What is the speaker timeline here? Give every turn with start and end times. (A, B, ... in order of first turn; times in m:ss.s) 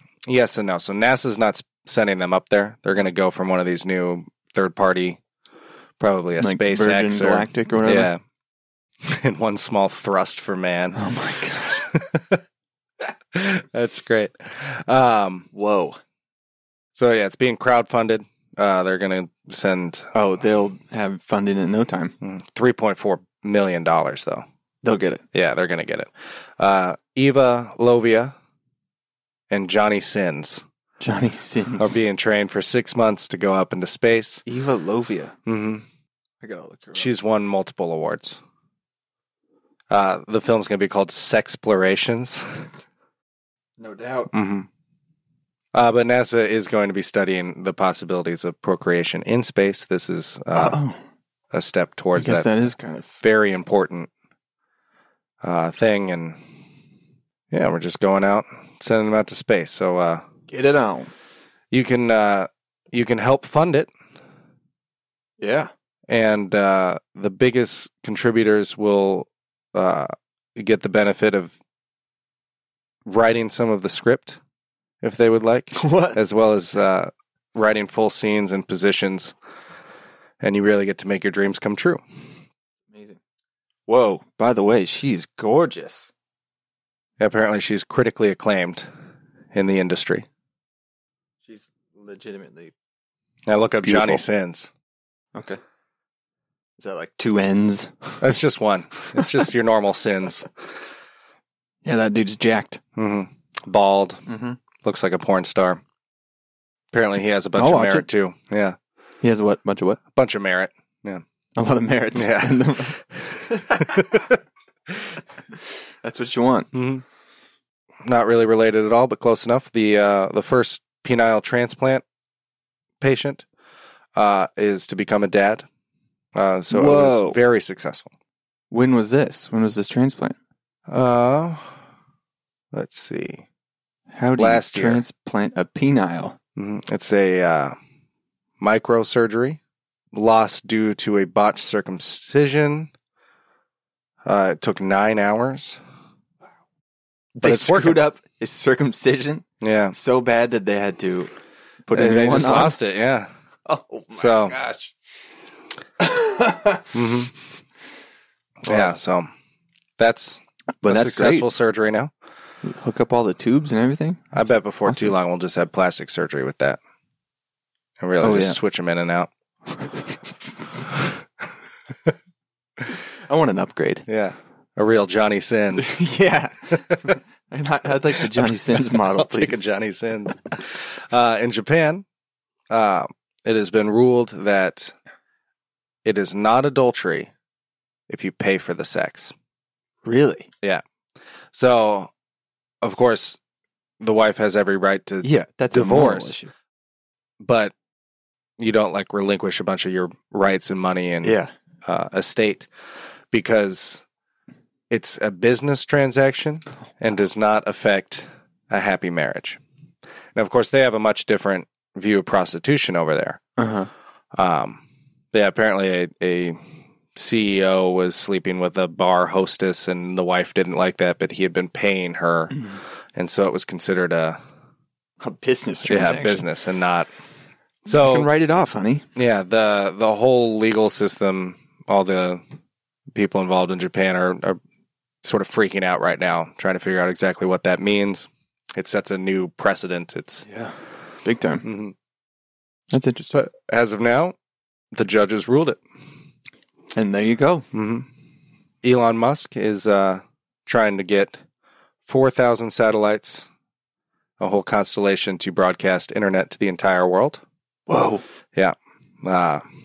0:00.3-0:05.2 A
0:06.0-0:08.2 A
0:06.4-0:08.1 B
0:09.0-0:12.4 A
0:11.0-0:11.9 B
0:13.3-0:15.5 A
0:15.5-0:16.0 B
0:17.0-0:20.1 A
0:20.1-0:22.2 B
0:22.2-0:24.4 A
0:24.8-0:25.2 B
0:25.3-0:28.3 A
0:29.5-0:30.6 A
0:31.0-0:32.0 B
0:31.8-0:34.4 A
0:34.5-0:35.4 B
0:35.5-0:35.8 A
0:36.4-0:37.1 B
0:36.9-0:38.4 A
0:39.9-0:42.7 A
0:43.8-0:44.3 B
0:44.3-0:44.7 A
0:45.7-0:50.8 A
0:50.5-0:51.0 B
0:51.5-0:52.5 A
0:52.2-0:53.1 B
0:53.2-0:54.1 A
0:55.4-0:56.4 A
0:57.5-1:00.3 A
1:00.5-1:01.1 B
1:01.7-1:03.9 A
1:05.4-1:05.7 B
1:06.1-1:11.6 A
1:13.1-1:14.4 A
1:15.0-1:19.4 A
1:15.8-1:16.2 B
1:20.4-1:22.0 A
1:22.9-1:23.2 B
1:23.9-1:26.1 B
1:27.2-1:28.9 A
1:29.5-1:30.3 A
1:31.4-1:32.7 B
1:33.5-1:34.7 A
1:33.8-1:34.2 B
1:36.8-1:38.4 B
1:38.2-1:40.5 A
1:41.8-1:42.8 B
1:43.0-1:44.3 A
1:44.3-1:44.6 B
1:44.8-1:45.8 A
1:46.9-1:48.8 A
1:47.6-1:48.1 B
1:49.2-1:50.0 B
1:50.1-1:51.2 A
1:51.6-1:54.2 B
1:52.2-1:53.0 A
1:53.7-1:54.4 A
1:55.6-1:56.7 B
1:56.7-1:57.0 A
1:58.0-2:02.0 A
2:03.0-2:03.4 A
2:04.2-2:05.7 A
2:06.4-2:08.1 A
2:06.7-2:07.4 B
2:08.7-2:10.4 B
2:10.9-2:11.8 A
2:12.7-2:13.5 A
2:14.1-2:16.4 B
2:14.4-2:15.0 A
2:16.6-2:17.8 A
2:18.6-2:19.6 A
2:20.1-2:22.9 A
2:24.2-2:25.8 A
2:27.4-2:28.0 A
2:27.4-2:31.3 B
2:29.6-2:30.0 A
2:31.9-2:32.8 B
2:31.9-2:33.3 A
2:33.7-2:34.9 B
2:34.1-2:34.6 A
2:36.0-2:36.9 B
2:36.9-2:37.3 A
2:38.6-2:39.3 A
2:38.7-2:38.9 B
2:40.0-2:42.1 A
2:40.8-2:41.5 B
2:42.6-2:45.2 B
2:44.3-2:46.8 A
2:48.0-2:49.3 A
2:48.2-2:48.6 B
2:49.8-2:50.8 B
2:53.3-2:54.0 B
2:54.1-2:56.0 A
2:55.8-2:59.6 B
2:58.4-3:02.0 A
3:02.7-3:04.9 A
3:06.0-3:07.3 A
3:08.1-3:09.3 A
3:10.0-3:10.5 B
3:11.5-3:12.1 A
3:12.8-3:13.4 A
3:14.0-3:16.4 A
3:15.2-3:16.5 B
3:17.4-3:17.7 A
3:18.6-3:22.7 A
3:21.2-3:21.5 B
3:23.3-3:24.0 A
3:24.9-3:29.6 A
3:30.4-3:33.4 A
3:33.6-3:33.9 B
3:34.3-3:34.8 A
3:35.3-3:36.6 A
3:37.2-3:44.4 A
3:42.5-3:42.8 B
3:45.2-3:46.5 B
3:45.8-3:47.1 A
3:47.8-3:48.3 A
3:47.9-3:49.1 B
3:49.2-3:52.4 A
3:53.1-3:54.6 A
3:55.2-4:00.4 A
4:00.5-4:01.7 B
4:01.6-4:02.0 A
4:02.9-4:03.4 B
4:03.3-4:04.4 A
4:04.9-4:05.8 A
4:07.0-4:07.7 B
4:07.7-4:08.1 A
4:08.8-4:11.4 A
4:12.1-4:13.5 A
4:14.4-4:17.4 A
4:17.9-4:18.2 B
4:18.5-4:19.6 A